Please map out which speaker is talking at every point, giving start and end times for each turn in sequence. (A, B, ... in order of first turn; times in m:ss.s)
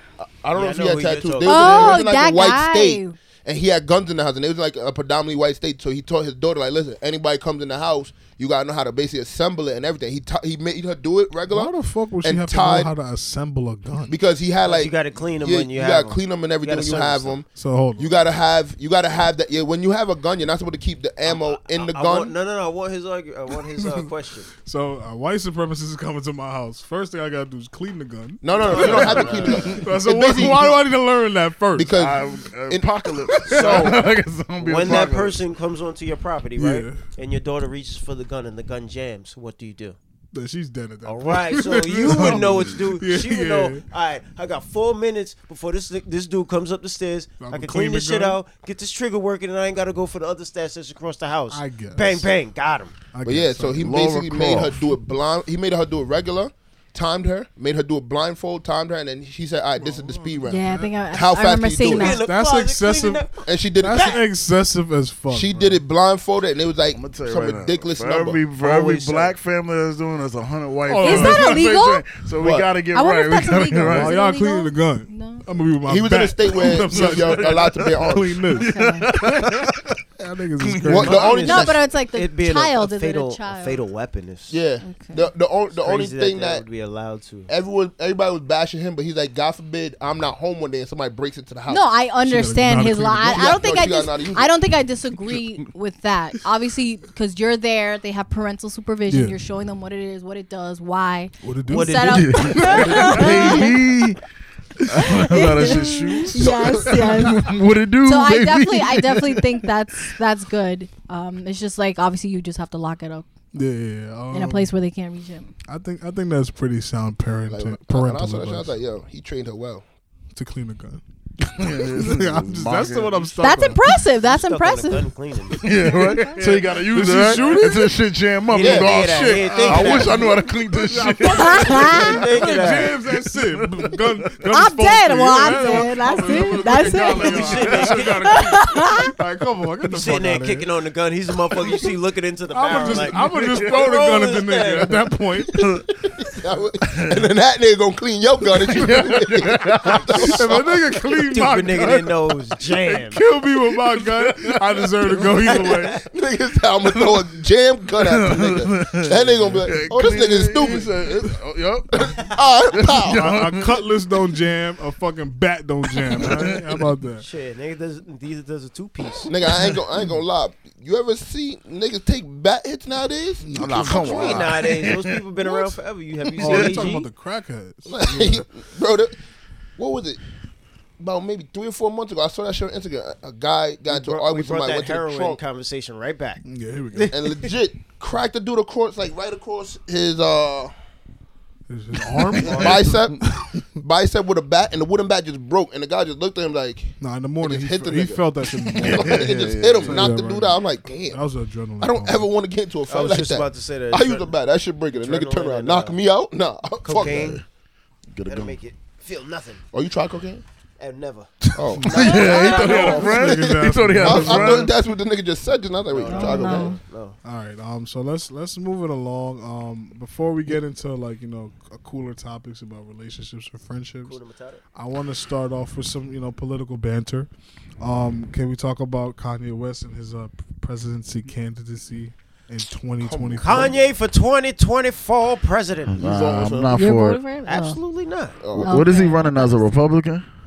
0:00.2-0:12.9 A
0:00.5-0:02.1 B
0:01.4-0:03.2 C
0:11.4-0:14.2 D
0:14.1-0:22.3 A
0:14.6-0:17.4 B
0:17.5-0:18.2 D
0:21.2-0:24.5 B
0:24.6-0:31.9 D
0:28.4-0:30.8 A
0:28.6-0:29.7 B
0:28.9-0:29.8 E
0:31.7-0:32.9 A
0:31.9-0:35.4 E
0:33.3-0:34.0 D
0:33.5-0:34.0 B
0:34.6-0:40.0 B
0:36.6-0:37.0 D
0:40.3-0:43.8 D
0:41.0-0:52.9 B
0:47.4-0:48.4 D
0:51.5-0:52.3 D
0:53.1-0:53.9 D
0:53.2-1:02.2 A
0:53.8-0:54.9 E
0:59.8-1:01.0 D
1:00.4-1:02.2 C
1:01.8-1:03.4 B
1:02.1-1:03.3 D
1:03.4-1:04.2 A
1:03.8-1:05.8 D
1:05.3-1:08.4 A
1:06.9-1:14.2 E
1:08.6-1:09.3 B
1:10.8-1:11.7 D
1:11.0-1:12.0 C
1:12.4-1:12.7 A
1:12.9-1:15.4 C
1:13.8-1:21.4 D
1:15.8-1:18.4 A
1:16.5-1:20.0 E
1:18.6-1:19.1 C
1:20.6-1:21.2 E
1:20.7-1:21.8 A
1:21.0-1:24.6 B
1:21.4-1:23.8 C
1:24.5-1:26.6 A
1:24.8-1:25.3 C
1:25.8-1:27.5 B
1:27.5-1:31.8 A
1:31.7-1:43.7 C
1:32.2-1:33.6 D
1:33.3-1:34.5 A
1:39.1-1:39.4 D
1:41.4-1:43.4 D
1:41.7-1:43.2 B
1:42.0-1:44.2 E
1:44.8-1:49.7 E
1:45.0-1:47.5 C
1:45.6-1:45.9 D
1:46.4-1:46.9 A
1:48.0-1:53.2 C
1:53.5-1:54.7 D
1:54.3-1:55.5 C
1:55.7-1:58.8 D
1:57.5-1:59.8 A
2:00.3-2:01.0 D
2:01.4-2:03.4 E
2:01.7-2:03.8 D
2:03.4-2:05.1 C
2:04.2-2:05.6 B
2:05.6-2:14.3 E
2:06.0-2:07.9 D
2:08.5-2:10.4 B
2:08.6-2:10.0 A
2:09.6-2:20.7 D
2:11.2-2:12.1 C
2:11.5-2:13.0 B
2:14.5-2:19.1 C
2:16.9-2:18.4 B
2:17.4-2:18.0 E
2:19.8-2:25.0 B
2:22.5-2:25.6 D
2:22.7-2:24.0 E
2:25.5-2:25.8 E
2:25.5-2:30.7 A
2:26.8-2:27.3 E
2:28.5-2:30.6 E
2:30.2-2:32.1 D
2:31.3-2:33.2 B
2:32.8-2:36.0 D
2:33.7-2:35.6 E
2:35.4-2:36.0 B
2:36.0-2:41.0 A
2:36.9-2:37.2 E
2:38.0-2:43.8 E
2:42.0-2:43.3 A
2:43.1-2:47.2 D
2:45.9-2:46.8 E
2:47.2-2:49.3 B
2:49.3-2:54.7 A
2:53.4-2:54.0 D
2:53.6-2:55.5 E
2:53.8-2:57.1 B
2:56.4-2:58.4 D
2:56.4-2:56.8 E
2:57.9-2:59.2 A
2:59.8-3:00.2 A
3:01.0-3:05.4 A
3:03.9-3:07.5 B
3:06.4-3:07.1 D
3:07.1-3:10.7 A
3:11.7-3:13.6 D
3:12.1-3:12.9 E
3:12.4-3:12.8 B
3:12.4-3:13.3 A
3:13.8-3:21.2 A
3:17.0-3:22.3 D
3:18.7-3:20.1 E
3:21.8-3:27.4 A
3:22.9-3:24.3 B
3:24.9-3:26.0 B
3:26.8-3:27.4 B
3:26.8-3:27.4 E
3:28.1-3:28.6 E
3:28.2-3:29.6 B
3:29.7-3:30.4 A
3:30.8-3:33.2 B
3:31.5-3:36.8 A
3:31.8-3:34.7 D
3:31.8-3:34.7 E
3:35.9-3:37.2 B
3:36.1-3:36.8 C
3:37.2-3:44.2 D
3:44.0-3:44.6 B
3:44.8-3:47.3 D
3:47.8-3:53.7 D
3:53.0-3:53.9 A
3:53.4-3:56.4 B
3:55.9-3:57.2 E
3:56.0-3:56.7 A
3:56.7-3:57.8 C
3:57.4-3:58.4 B
3:58.4-3:58.9 A
3:58.6-4:00.2 E
3:58.6-3:59.3 C